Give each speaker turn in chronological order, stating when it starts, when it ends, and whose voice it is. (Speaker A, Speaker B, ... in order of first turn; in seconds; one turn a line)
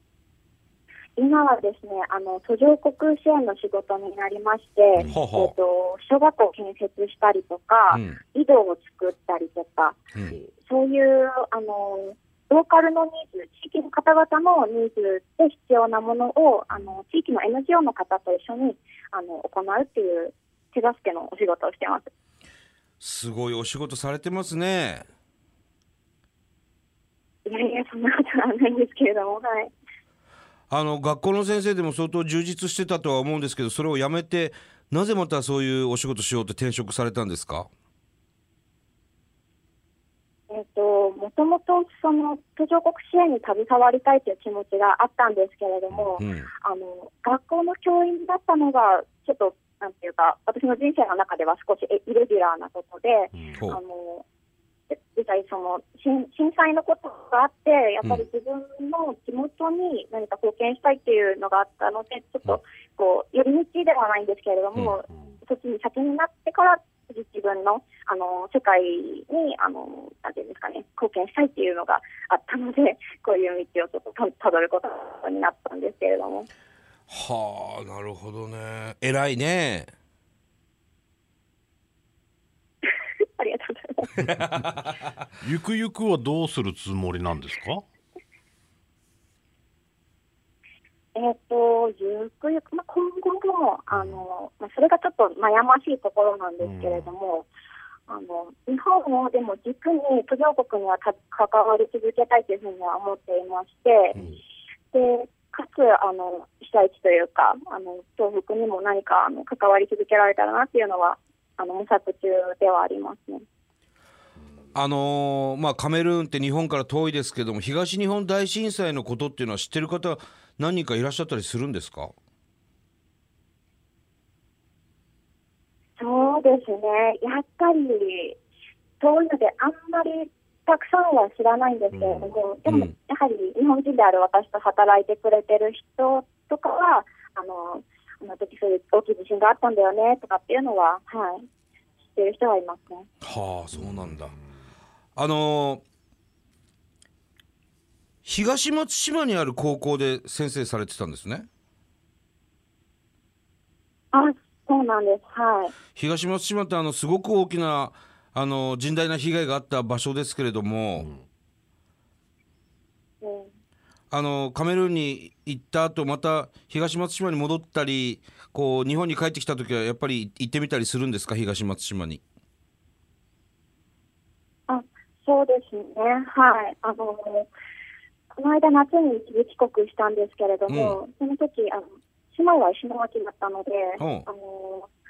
Speaker A: 1.2-10.0
Speaker B: 5.0-5.2
Speaker C: 5.0-5.5
Speaker C: 7.9-8.2
Speaker A: 10.7-22.1
Speaker C: 23.0-25.1
Speaker A: 27.4-29.7
Speaker C: 30.7-37.7
Speaker A: 40.5-54.2
Speaker C: 46.2-46.5
Speaker B: 53.3-53.6
Speaker A: 54.9-76.5
Speaker B: 65.1-65.4
Speaker C: 77.1-79.9
Speaker A: 83.4-84.1
Speaker C: 84.2-84.9
Speaker B: 85.4-87.8
Speaker A: 91.1-97.5
Speaker B: 93.9-94.2
Speaker B: 96.6-97.1
Speaker A: 98.1-104.2
Speaker A: 104.9-113.4
Speaker C: 114.7-122.1
Speaker A: 126.0-128.4
Speaker A: 129.0-141.4
Speaker B: 131.9-132.4
Speaker C: 132.7-132.9
Speaker A: 142.1-143.1
Speaker C: 143.2-144.3
Speaker B: 143.7-144.6
Speaker C: 145.2-145.8
Speaker C: 148.2-151.5
Speaker A: 154.1-155.7
Speaker C: 155.9-161.1
Speaker B: 161.0-161.2
Speaker A: 163.2-163.5
Speaker C: 164.1-172.2
Speaker A: 174.7-177.5
Speaker A: 178.4-184.9
Speaker C: 180.7-181.0
Speaker C: 184.0-184.3